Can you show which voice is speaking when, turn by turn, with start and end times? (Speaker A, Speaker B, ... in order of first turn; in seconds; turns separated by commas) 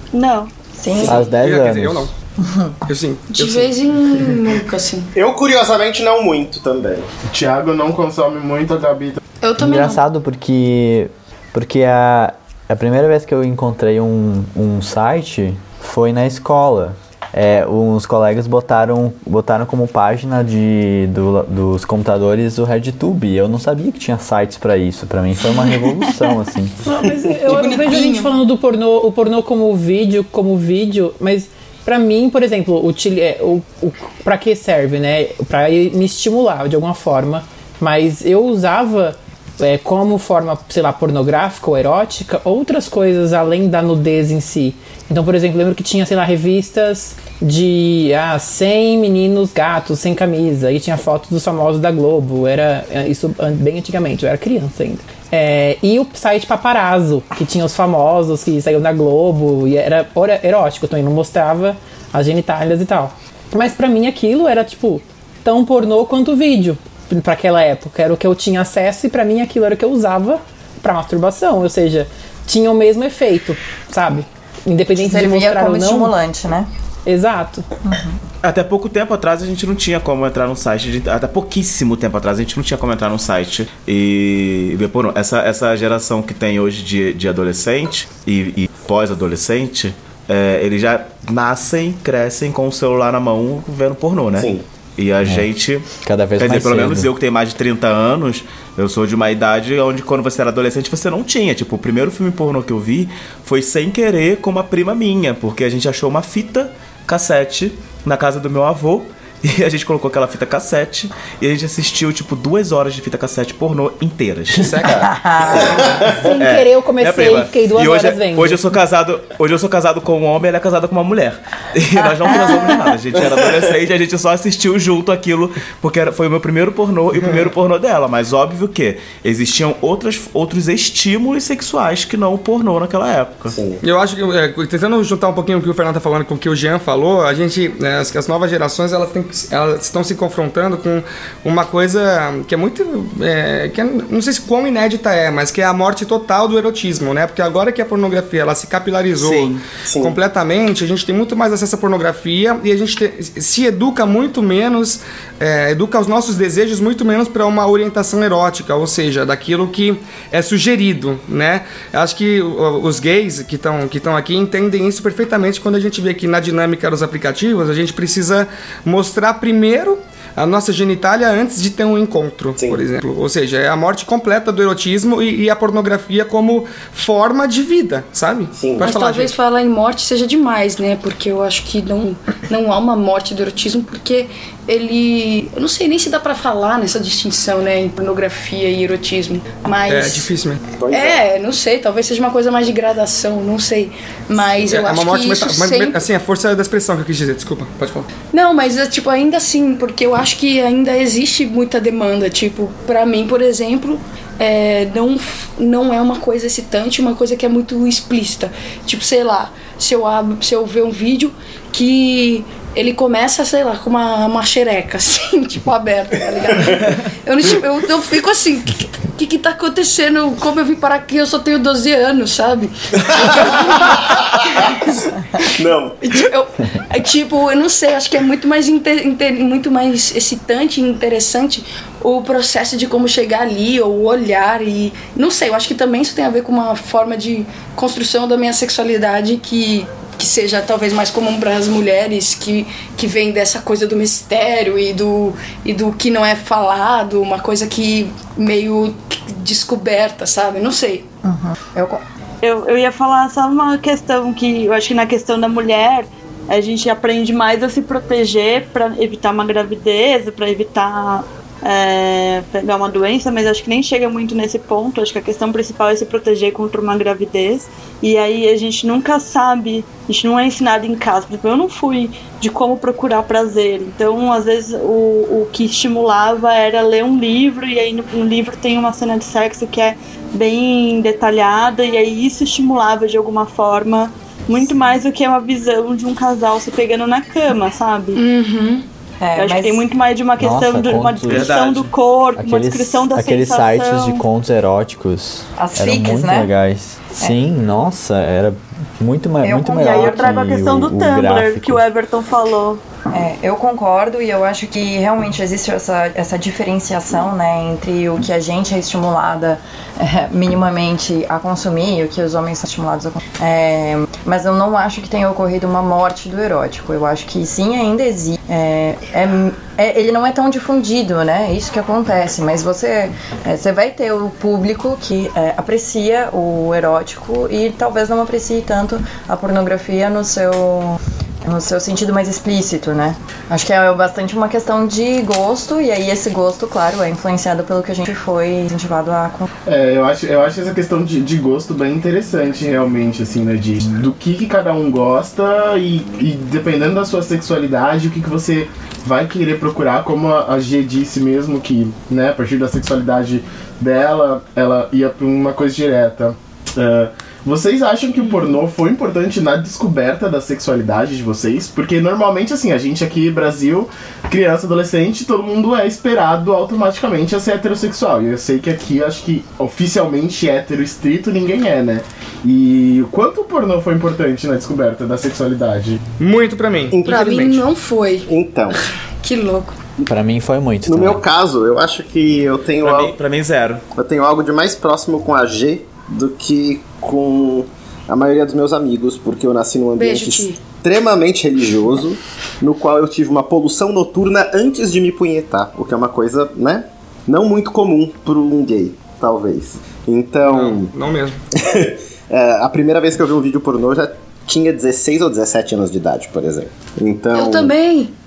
Speaker A: 0.1-0.5, Speaker B: 0.8-1.2, Speaker C: 1.0-2.1, Speaker D: 1.1-2.1, Speaker B: 2.4-2.7, Speaker C: 2.9-4.4, Speaker E: 3.3-5.1, Speaker F: 5.1-7.1, Speaker G: 7.3-9.2, Speaker E: 9.4-10.0, Speaker D: 9.6-26.7, Speaker H: 26.8-76.1, Speaker E: 27.4-28.3, Speaker B: 74.9-76.7, Speaker H: 77.0-77.6, Speaker B: 77.8-78.2, Speaker I: 78.4-95.8, Speaker F: 94.3-94.6, Speaker D: 96.0-97.1, Speaker I: 96.4-115.1, Speaker C: 114.5-115.1, Speaker B: 115.0-115.7, Speaker F: 115.5-116.1, Speaker I: 115.7-133.6, Speaker H: 116.2-118.6, Speaker B: 122.2-122.8, Speaker F: 123.2-123.5, Speaker F: 133.5-133.8, Speaker C: 133.8-179.4, Speaker I: 149.2-149.7, Speaker F: 149.8-150.2, Speaker F: 172.6-172.8, Speaker F: 178.5-178.9, Speaker E: 178.8-190.3, Speaker C: 189.9-190.6, Speaker F: 190.8-191.2, Speaker E: 190.9-196.0, Speaker C: 194.7-198.1, Speaker E: 198.3-224.3, Speaker F: 225.4-226.2, Speaker E: 226.0-251.1, Speaker B: 251.2-252.0, Speaker A: 252.4-288.2, Speaker E: 288.1-288.8, Speaker B: 289.2-289.9, Speaker A: 289.4-294.2, Speaker D: 290.4-291.6, Speaker I: 291.2-291.9, Speaker D: 292.4-301.8, Speaker B: 295.6-296.5, Speaker B: 299.4-300.4, Speaker A: 299.7-302.8, Speaker B: 303.1-339.5, Speaker G: 339.6-376.0, Speaker C: 376.2-377.6, Speaker F: 376.9-377.2, Speaker E: 377.0-379.8, Speaker F: 378.3-378.8, Speaker D: 380.1-381.2, Speaker F: 380.9-383.1, Speaker I: 382.8-383.8, Speaker F: 383.9-400.9, Speaker E: 389.9-390.6, Speaker C: 400.4-401.4, Speaker F: 401.6-407.7, Speaker E: 407.3-408.1